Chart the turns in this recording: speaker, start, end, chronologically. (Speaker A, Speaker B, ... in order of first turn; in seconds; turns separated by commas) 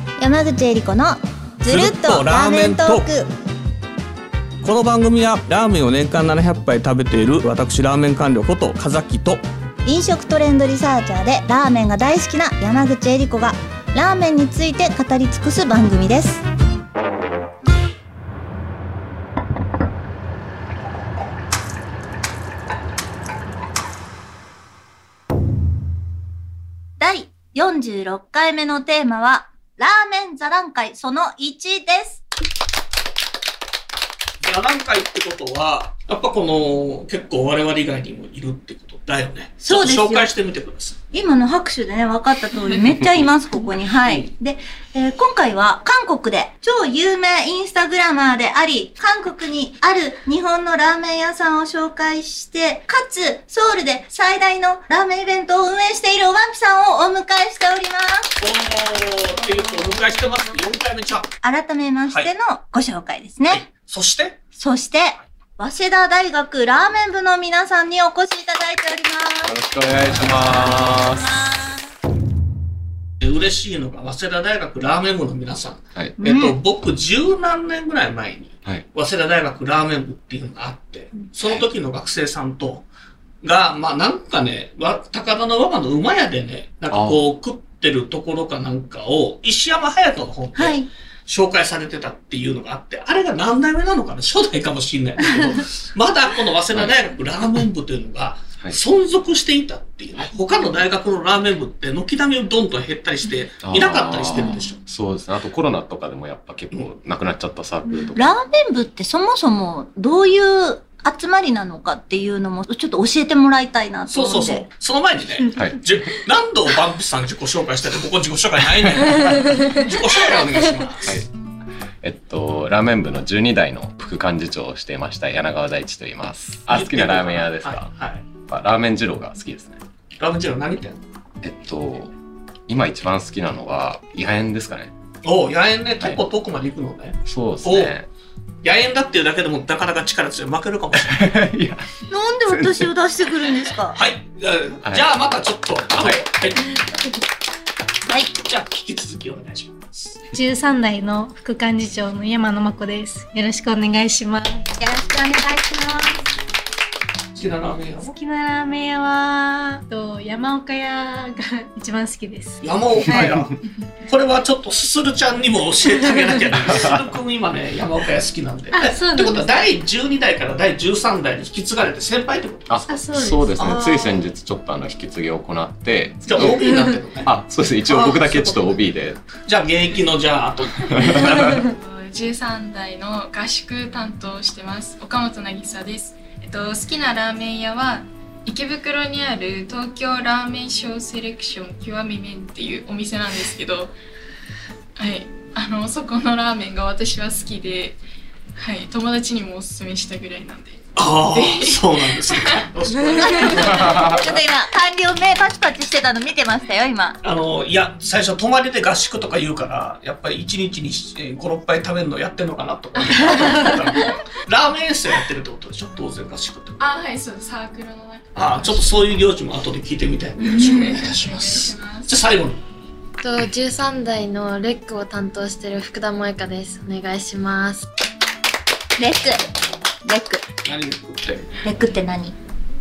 Speaker A: 0.2-3.3, Speaker B: 1.7-3.1, Speaker B: 4.6-9.4, Speaker A: 9.8-16.4, Speaker A: 27.0-32.2, Speaker B: 34.4-41.0, Speaker A: 39.6-40.3, Speaker A: 41.1-58.3, Speaker B: 58.4-61.3, Speaker A: 61.4-63.7, Speaker B: 63.5-64.4, Speaker A: 64.6-69.6, Speaker C: 69.4-71.3, Speaker A: 70.5-71.9, Speaker B: 73.2-82.9, Speaker A: 76.2-76.6, Speaker B: 83.4-104.8, Speaker C: 86.9-87.2, Speaker A: 90.6-90.9, Speaker C: 96.7-97.1, Speaker C: 103.6-108.3, Speaker A: 108.1-114.7, Speaker B: 114.1-121.2, Speaker C: 115.5-115.8, Speaker C: 121.0-121.3, Speaker C: 122.0-127.9, Speaker B: 126.7-128.2, Speaker C: 128.5-129.8, Speaker B: 130.2-131.0, Speaker C: 131.4-132.1, Speaker C: 132.7-134.9, Speaker B: 135.2-137.9, Speaker C: 137.3-138.1, Speaker B: 138.6-141.2, Speaker C: 140.9-141.9, Speaker A: 142.1-144.0, Speaker C: 142.4-142.9, Speaker B: 143.9-146.8, Speaker C: 144.8-145.1, Speaker C: 146.0-146.2, Speaker A: 148.1-148.3, Speaker B: 148.4-150.2, Speaker D: 150.3-154.8, Speaker A: 154.8-156.2, Speaker D: 155.4-156.0, Speaker B: 157.3-158.2, Speaker D: 158.1-163.3, Speaker B: 162.6-172.8, Speaker A: 163.1-163.4, Speaker C: 166.7-167.0, Speaker D: 168.7-169.6, Speaker C: 172.7-179.3, Speaker D: 172.9-174.2, Speaker B: 176.3-177.3, Speaker B: 177.9-178.8, Speaker B: 179.4-181.7, Speaker C: 180.8-181.6, Speaker E: 181.7-193.9, Speaker E: 195.0-198.0, Speaker E: 198.6-202.7, Speaker B: 201.0-204.3, Speaker A: 203.2-207.2, Speaker C: 203.8-204.1, Speaker B: 207.2-216.8, Speaker E: 213.0-213.8, Speaker E: 216.8-219.1, Speaker B: 218.3-222.6, Speaker E: 220.4-222.2, Speaker F: 223.2-227.9, Speaker A: 229.0-229.4, Speaker A: 230.0-230.5, Speaker B: 230.7-231.6, Speaker A: 231.6-232.4